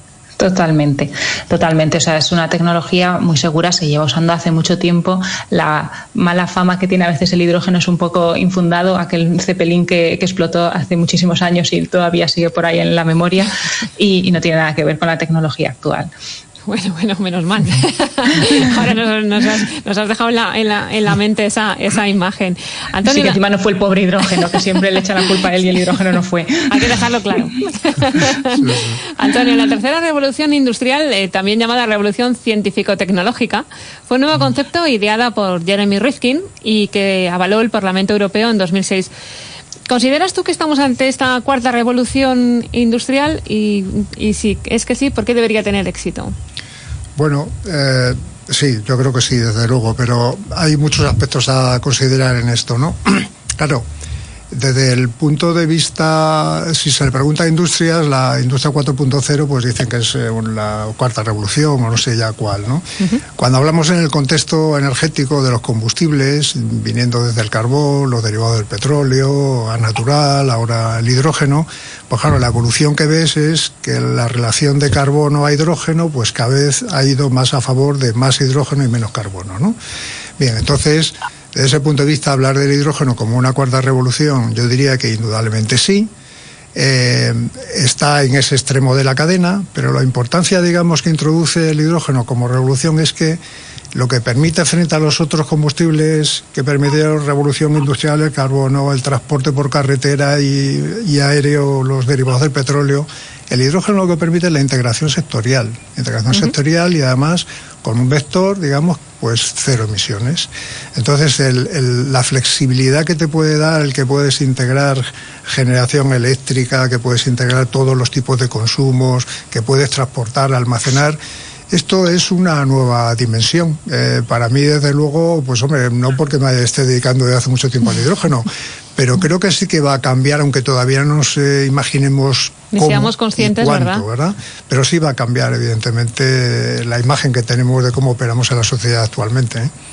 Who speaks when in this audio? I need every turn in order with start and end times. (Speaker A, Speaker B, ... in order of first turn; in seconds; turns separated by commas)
Speaker A: 0.4-16.1, Speaker B: 16.7-23.4, Speaker A: 23.1-27.5, Speaker B: 26.7-39.1, Speaker C: 28.6-29.0, Speaker B: 39.9-46.3, Speaker C: 47.2-53.9, Speaker C: 54.5-79.8, Speaker C: 80.4-86.1, Speaker C: 86.8-93.4, Speaker C: 93.9-121.2, Speaker C: 121.7-139.7, Speaker B: 132.7-134.0